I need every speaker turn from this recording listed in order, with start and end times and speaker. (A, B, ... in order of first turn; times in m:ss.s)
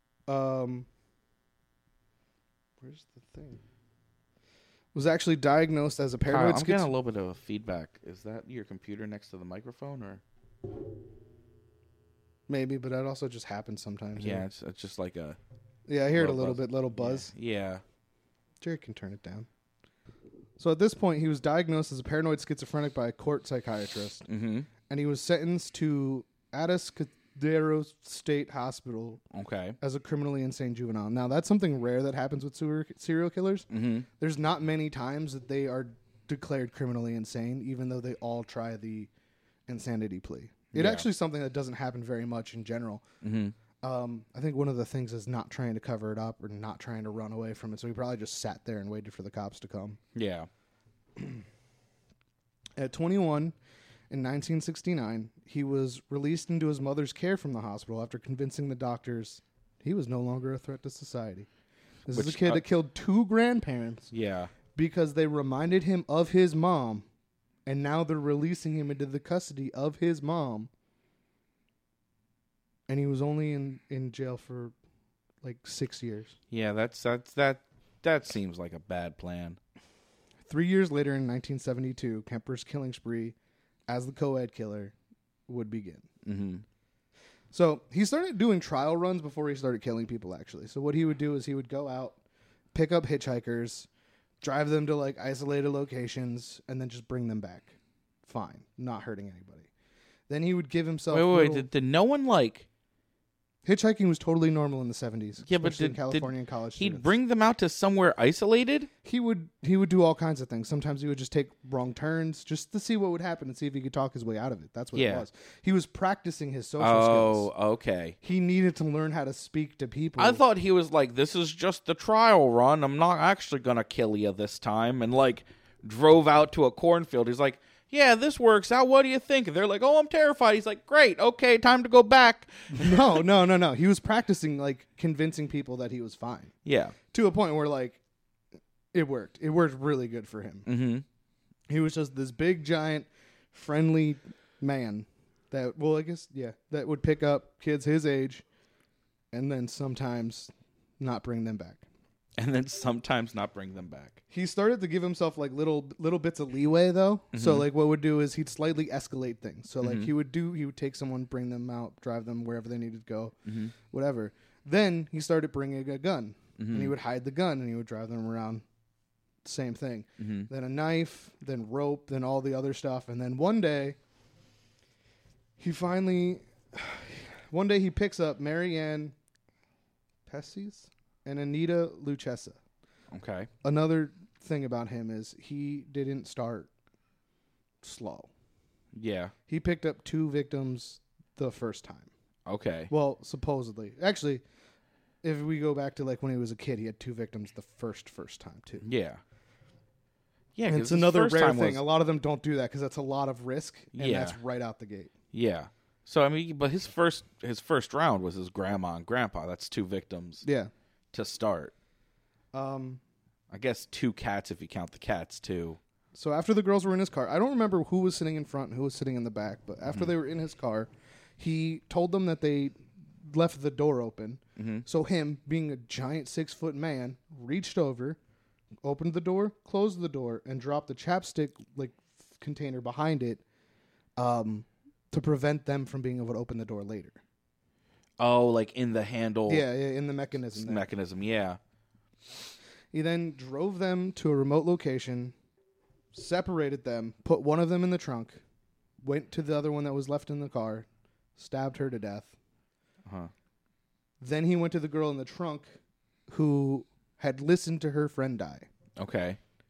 0:00.3-0:00.9 A
0:02.8-0:03.6 A
0:04.9-0:06.9 A
0:06.3-0:10.2 B
0:12.5-0:14.4 A
0:14.2-0:15.4 B
0:15.9-0:17.3 A
0:16.1-0:17.8 B
0:18.6-0:19.5 A
0:20.6-0:24.3 A
0:24.3-0:24.7 B
0:24.9-0:29.2 A
0:29.3-0:29.8 B
0:29.8-0:33.7 A
0:33.7-0:34.1 B
0:34.2-0:39.1 A
0:39.7-0:43.0 A
0:40.7-0:41.1 B
0:43.2-0:43.5 B
0:43.8-0:50.0 A
0:50.1-0:50.5 B
0:51.2-0:51.4 A
0:52.8-0:53.5 A
0:54.1-1:01.5 A
1:02.1-1:04.1 A
1:02.1-1:02.6 B
1:04.1-1:04.5 B
1:04.7-1:07.0 A
1:07.6-1:10.7 A
1:12.9-1:14.7 A
1:15.4-1:16.3 A
1:16.5-1:19.6 B
1:20.4-1:23.3 A
1:23.9-1:24.9 A
1:25.5-1:26.1 A
1:26.2-1:26.6 B
1:27.5-1:32.2 A
1:32.7-1:33.9 A
1:34.4-1:37.7 A
1:38.2-1:39.7 A
1:40.3-1:41.7 A
1:41.1-1:42.6 B
1:43.6-1:47.1 A
1:45.4-1:48.9 B
1:49.0-1:57.5 A
1:54.9-1:55.2 B
1:56.8-1:58.2 B
1:58.2-2:00.4 A
2:00.2-2:13.2 B
2:12.7-2:16.5 A
2:16.6-2:17.0 B
2:17.1-2:18.0 A
2:18.9-2:20.7 A
2:20.6-2:21.0 B
2:21.7-2:28.4 A
2:29.3-2:31.8 A
2:32.4-2:34.2 B
2:34.3-2:48.6 A
2:37.3-2:37.6 B
2:39.8-2:40.1 B
2:43.4-2:43.7 B
2:46.6-2:46.9 B
2:49.4-2:54.0 A
2:50.2-2:50.5 B
2:55.6-2:59.1 A
3:00.2-3:02.6 A
3:03.1-3:03.5 B
3:03.6-3:06.7 A
3:07.8-3:08.3 A
3:08.9-3:09.3 B
3:09.5-3:12.1 A
3:12.4-3:12.9 B
3:12.9-3:14.4 A
3:15.2-3:18.8 A
3:18.8-3:19.2 B
3:20.6-3:21.8 B
3:20.7-3:25.1 A
3:23.9-3:24.4 B
3:25.3-3:30.4 B
3:30.4-3:30.7 A
3:31.1-3:31.7 B
3:32.5-3:33.0 A
3:33.5-3:35.8 B
3:36.1-3:48.2 A
3:39.8-3:40.1 B
3:44.6-3:44.8 B
3:48.8-3:53.4 A
3:54.2-3:57.2 A
3:58.2-3:59.6 B
3:59.5-4:00.9 A
4:00.5-4:01.6 B
4:02.9-4:05.3 A
4:06.1-4:08.4 A
4:09.0-4:10.8 A
4:11.4-4:12.3 A
4:13.0-4:13.3 B
4:14.2-4:15.7 A
4:16.3-4:18.7 A
4:19.0-4:19.4 B